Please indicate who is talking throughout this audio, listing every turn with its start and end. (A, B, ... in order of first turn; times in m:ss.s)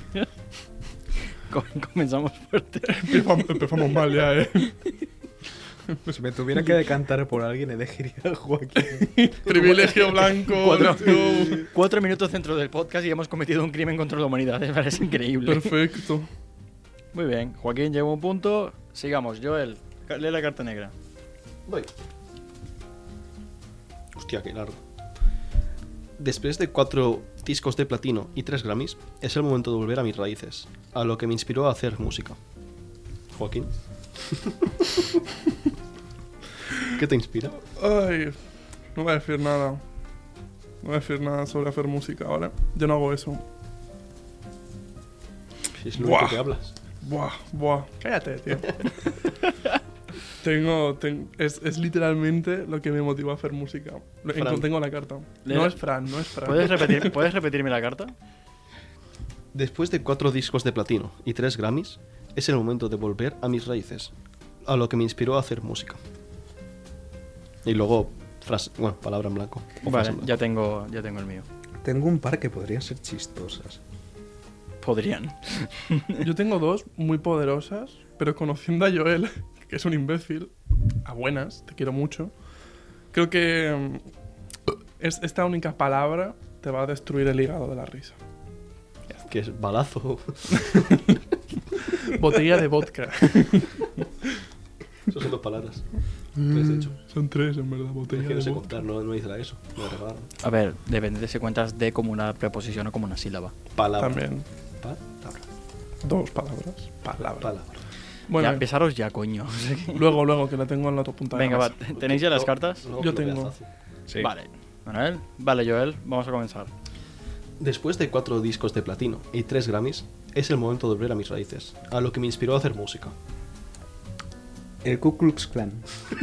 0:01.5-0:03.4 A
0:02.9-0:04.8 B
0:06.1-0:09.2 C
0:08.8-0:11.7 B
0:09.5-0:15.7 A
0:10.5-0:11.6 D
0:15.4-0:16.3 B
0:17.1-0:20.9 A
0:24.1-0:24.8 D
0:26.2-0:32.4 D
0:33.3-0:35.0 D
0:36.9-0:37.6 D
0:37.8-0:38.4 B
0:38.9-0:39.8 B
0:40.8-0:43.4 B
0:45.8-0:46.7 D
0:46.0-0:46.4 B
0:47.0-0:48.8 B
0:50.4-0:57.1 B
0:54.3-0:54.7 D
0:55.4-0:55.8 A
0:56.4-0:58.1 A
0:59.5-1:04.1 D
1:04.6-1:06.0 D
1:07.6-1:10.3 D
1:09.8-1:11.4 A
1:11.8-1:13.8 C
1:14.8-1:16.2 A
1:16.2-1:22.3 B
1:23.1-1:24.0 B
1:25.0-1:28.2 B
1:29.2-1:31.0 D
1:32.0-1:33.9 B
1:35.1-1:37.0 D
1:36.5-1:38.7 B
1:38.1-1:40.3 D
1:40.4-1:43.5 A
1:43.7-1:44.3 D
1:44.0-1:44.4 B
1:44.8-1:45.4 D
1:46.0-1:47.5 B
1:47.2-1:47.8 D
1:48.3-1:48.6 B
1:48.4-1:50.2 A
1:50.0-1:51.7 B
1:51.3-1:52.8 A
1:51.9-1:53.6 D
1:53.0-1:53.5 B
1:54.2-1:56.7 A
1:57.6-2:03.1 D
2:04.8-2:05.8 C